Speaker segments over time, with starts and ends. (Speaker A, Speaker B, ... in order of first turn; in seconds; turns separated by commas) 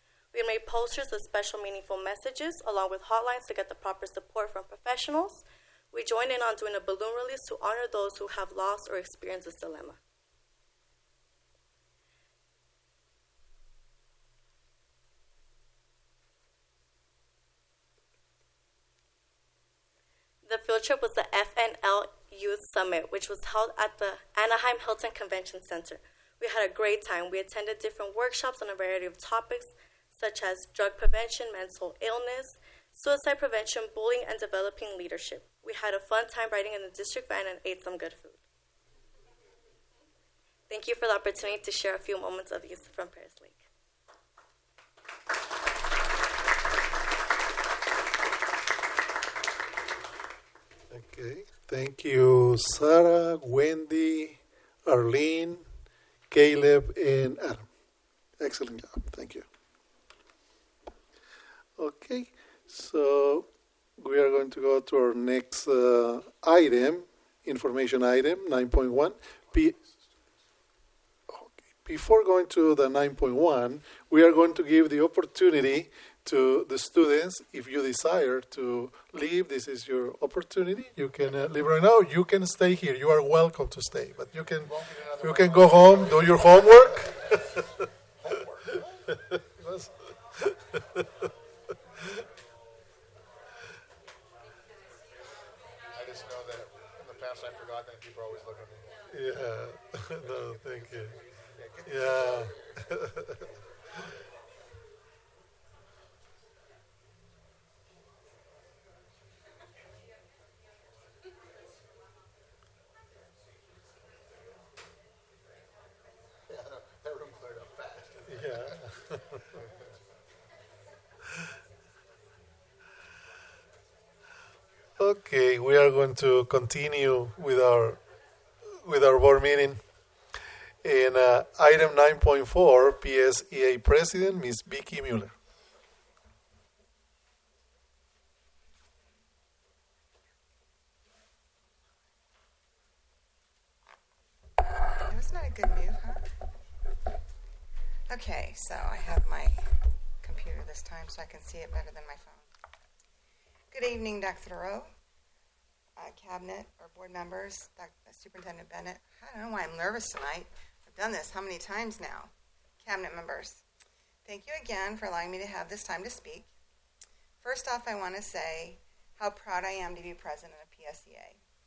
Speaker A: 0.3-10.0, Speaker A: 20.4-38.4, Speaker A: 40.7-43.6, Speaker B: 50.9-55.7, Speaker B: 56.3-57.7, Speaker B: 58.4-59.5, Speaker B: 61.8-63.5, Speaker B: 64.0-69.8, Speaker B: 71.3-87.6, Speaker C: 84.7-86.3, Speaker C: 88.3-88.8, Speaker B: 89.3-91.0, Speaker C: 95.9-98.9, Speaker B: 99.1-101.2, Speaker C: 101.1-102.5, Speaker B: 101.8-103.2, Speaker C: 116.5-118.2, Speaker B: 118.3-119.4, Speaker B: 125.0-128.0, Speaker B: 128.7-129.8, Speaker B: 130.8-135.3, Speaker D: 145.0-146.3, Speaker D: 148.1-149.6, Speaker D: 150.2-152.5, Speaker D: 153.7-154.9, Speaker D: 156.0-163.6, Speaker D: 164.3-166.5, Speaker D: 167.4-171.4